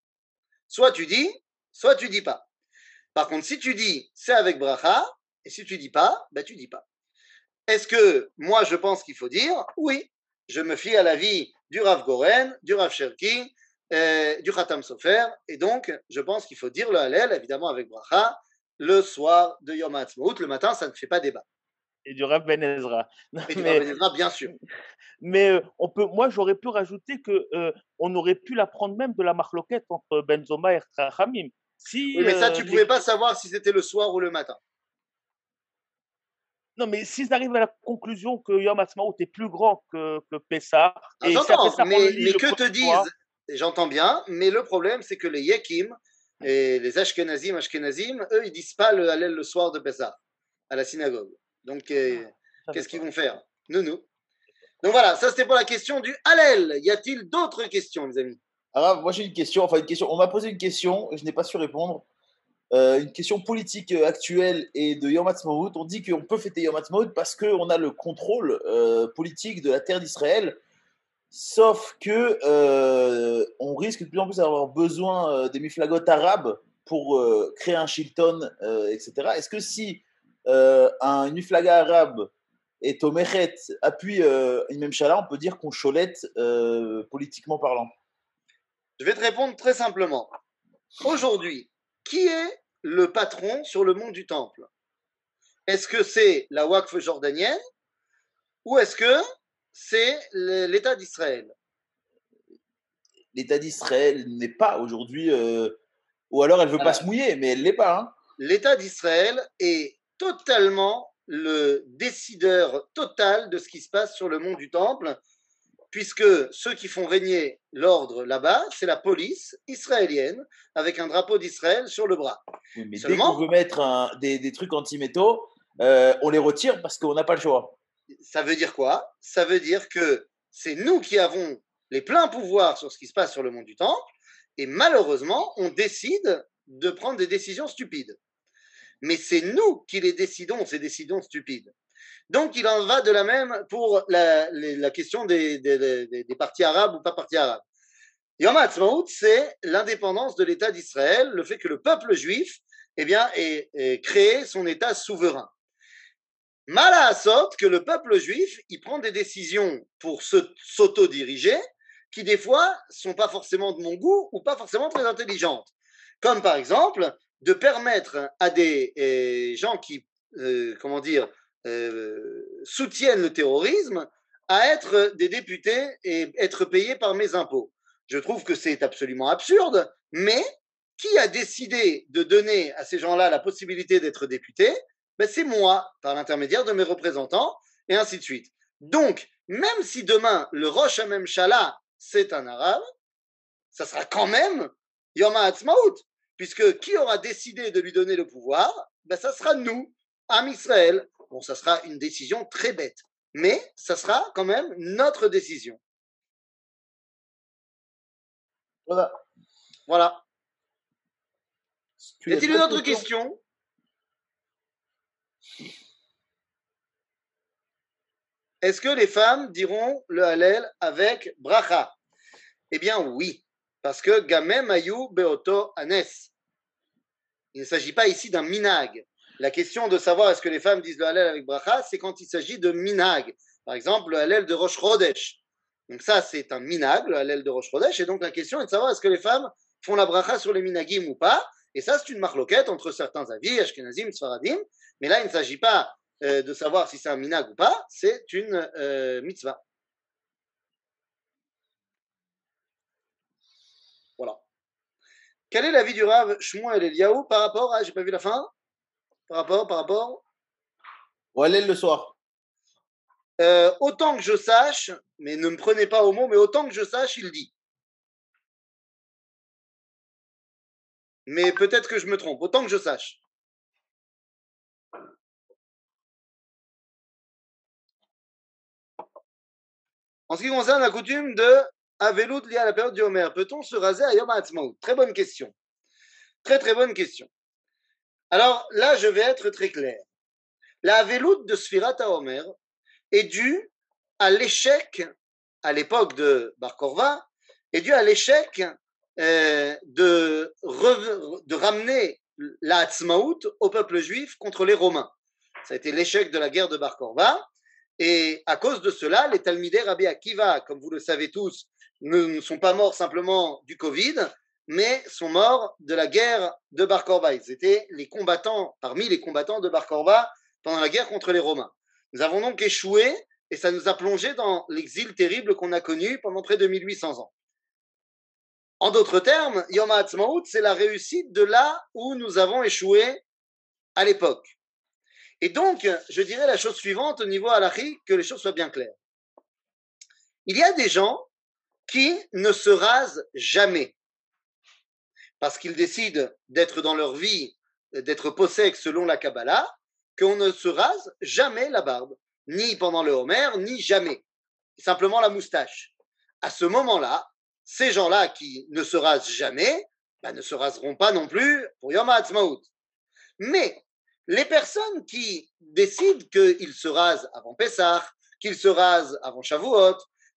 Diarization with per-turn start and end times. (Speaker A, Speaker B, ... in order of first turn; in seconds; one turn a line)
Speaker A: 0.7-2.4
Speaker A: 3.1-6.8
Speaker A: 7.7-21.4
Speaker B: 22.1-23.8
Speaker A: 23.5-24.5
Speaker B: 25.2-32.9
Speaker A: 32.1-34.6
Speaker B: 36.8-43.1
Speaker A: 41.2-50.2
Speaker A: 50.7-54.0
Speaker B: 52.7-53.0
Speaker A: 54.8-58.4
Speaker C: 58.7-62.0
Speaker C: 62.7-70.6
Speaker C: 71.3-82.3
Speaker C: 82.8-87.9
Speaker A: 89.0-90.3
Speaker A: 91.0-94.7
Speaker A: 95.7-97.6
Speaker A: 98.6-99.2
Speaker A: 99.7-101.5
Speaker C: 103.3-105.8
Speaker C: 106.3-108.2
Speaker A: 108.4-115.2
Speaker A: 115.9-122.4
Speaker C: 122.8-127.7
Speaker A: 123.0-123.4
Speaker A: 128.2-134.0
Speaker A: 134.6-138.2
Speaker A: 139.0-141.7
Speaker A: 142.3-147.6
Speaker A: 148.4-155.5
Speaker A: 156.7-161.6
Speaker A: 162.1-180.4
Speaker A: 181.0-192.8
Speaker A: 193.7-205.8
Speaker C: 208.8-209.2
Speaker A: 209.9-210.2
Speaker C: 212.0-213.1
Speaker A: 212.3-213.4
Speaker A: 218.6-221.9
Speaker A: 222.7-226.3
Speaker A: 227.5-249.6
Speaker A: 255.5-258.5
Speaker A: 259.3-260.2
Speaker C: 261.3-262.1
Speaker A: 263.4-267.5
Speaker A: 271.3-273.2
Speaker A: 280.3-285.5
Speaker A: 286.4-287.3
Speaker A: 288.3-290.0
Speaker A: 290.8-292.5
Speaker A: 293.1-295.1
Speaker A: 295.6-305.1
Speaker A: 305.6-307.4
Speaker A: 308.0-327.3
Speaker A: 328.8-333.2
Speaker A: 333.9-334.5
Speaker A: 335.4-338.9
Speaker A: 340.4-341.3
Speaker A: 341.9-343.9
Speaker A: 345.4-354.2
Speaker A: 354.8-355.9
Speaker A: 356.4-362.7
Speaker A: 363.4-370.1